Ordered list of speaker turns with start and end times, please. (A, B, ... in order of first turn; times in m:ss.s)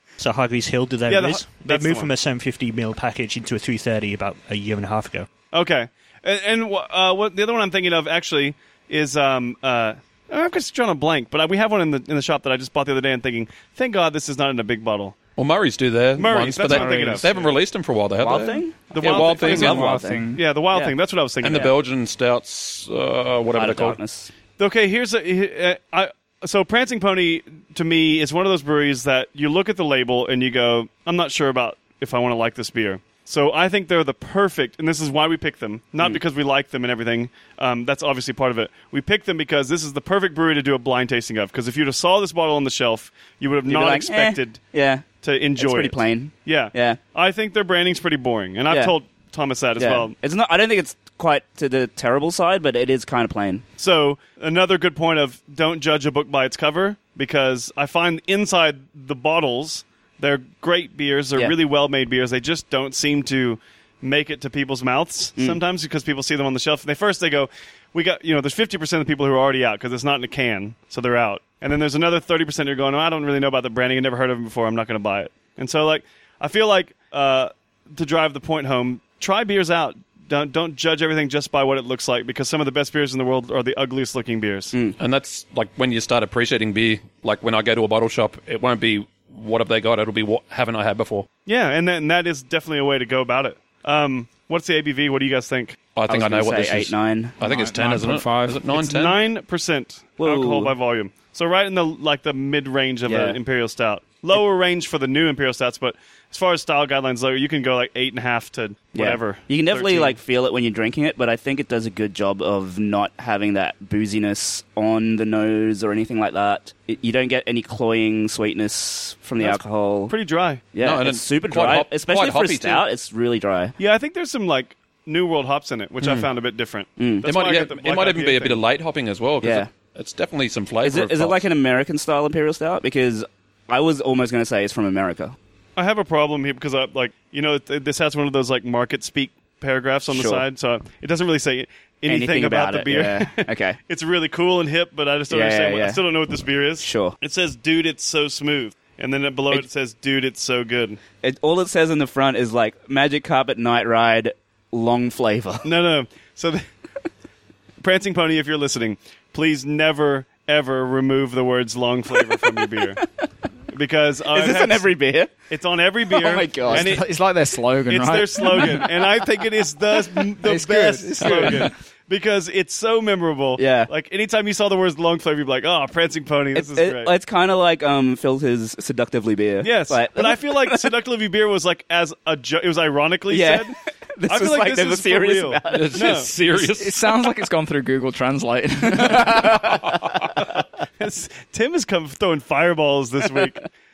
0:00.2-0:05.3 A
0:01.1-0:02.1 B
0:05.5-0:15.2 B
0:15.4-0:19.8 C
0:16.2-0:17.5 B
0:16.7-0:17.1 D
0:18.2-0:20.9 D
0:18.9-0:21.7 B
0:19.0-0:20.4 E
0:21.4-0:24.0 C
0:21.5-0:21.7 D
0:23.5-0:24.3 D
0:24.6-0:44.6 B
0:43.7-0:45.0 D
0:45.2-0:50.1 B
0:45.6-0:47.0 D
0:48.7-0:48.9 D
0:49.8-0:53.6 D
0:53.8-1:24.7 B
1:05.4-1:05.6 D
1:25.0-1:31.3 C
1:31.5-1:35.8 B
1:36.0-1:39.2 C
1:36.1-1:37.4 D
1:37.4-1:38.6 E
1:38.7-1:50.2 B
1:40.2-1:40.8 D
1:43.1-1:43.4 D
1:49.0-2:00.1 D
1:59.4-2:00.7 B
2:00.7-2:03.8 D
2:00.8-2:02.9 C
2:03.8-2:08.6 B
2:06.0-2:06.3 C
2:07.0-2:07.3 D
2:07.2-2:11.4 C
2:09.4-2:09.7 D
2:10.8-2:15.4 D
2:15.8-2:31.0 B
2:20.1-2:20.5 D
2:22.1-2:23.8 D
2:25.3-2:26.0 D
2:26.8-2:27.2 D
2:31.2-2:35.7 D
2:35.6-2:36.6 B
2:37.8-2:43.0 B
2:42.2-2:43.2 D
2:43.7-2:44.9 B
2:44.3-2:45.3 D
2:45.5-2:47.0 B
2:46.1-2:47.0 D
2:46.6-2:48.9 E
2:47.9-2:57.1 B
2:48.4-2:48.9 D
2:49.8-2:50.3 D
2:50.4-2:51.7 E
2:51.2-2:51.7 D
2:53.6-2:53.9 D
2:56.5-3:00.9 D
2:59.6-3:03.8 B
3:03.3-3:06.2 D
3:04.3-3:06.3 B
3:05.7-3:07.1 C
3:06.5-3:09.6 E
3:09.0-3:10.6 D
3:09.7-3:10.1 C
3:10.5-3:13.7 B
3:13.2-3:13.5 D